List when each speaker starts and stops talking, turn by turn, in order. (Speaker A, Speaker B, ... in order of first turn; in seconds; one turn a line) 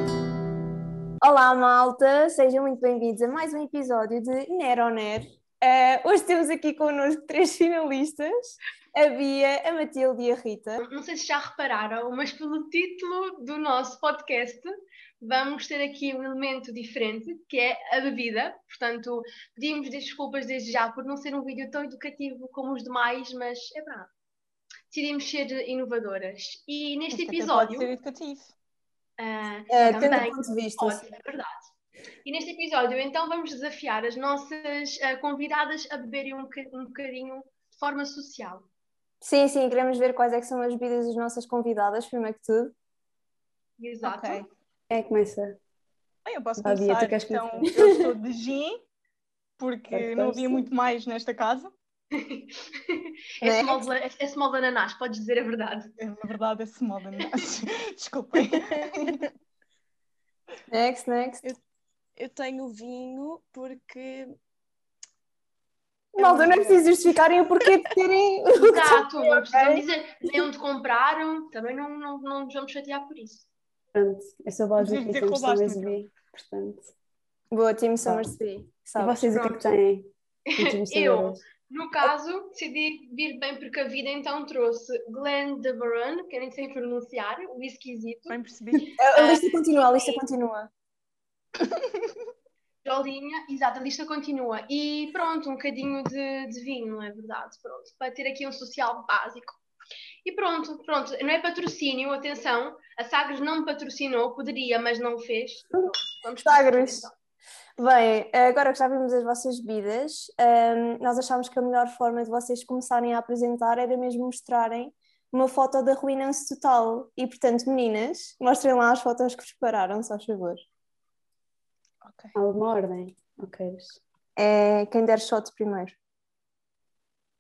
Speaker A: 1.2-10.8
Speaker B: 10.8-14.7
Speaker B: 15.2-24.1
Speaker B: 24.9-27.9
Speaker C: 27.1-28.5
Speaker B: 29.2-31.6
Speaker A: 29.7-31.1
Speaker B: 32.2-38.7
Speaker A: 39.2-42.7
Speaker B: 43.8-44.4
Speaker C: 44.0-44.5
Speaker D: 44.9-45.6
Speaker C: 46.2-48.8
Speaker D: 46.6-48.0
Speaker C: 49.6-51.7
Speaker D: 49.9-50.7
Speaker B: 52.1-55.9
Speaker A: 53.4-53.9
Speaker C: 56.0-59.2
Speaker E: 58.4-59.2
Speaker A: 60.7-61.4
Speaker E: 62.1-64.3
Speaker A: 66.1-69.8
Speaker E: 66.2-67.0
Speaker B: 68.5-73.5
Speaker D: 73.9-76.9
Speaker C: 74.8-76.0
Speaker A: 77.5-79.3
Speaker D: 79.0-81.4
Speaker B: 79.3-79.6
Speaker B: 80.5-88.4
Speaker C: 88.3-89.0
Speaker A: 89.0-90.7
Speaker B: 89.1-90.2
Speaker B: 92.8-99.6
Speaker B: 100.2-107.1
Speaker A: 106.4-107.0
Speaker A: 107.8-120.6
Speaker C: 122.0-122.3
Speaker D: 122.3-124.0
Speaker A: 124.4-125.9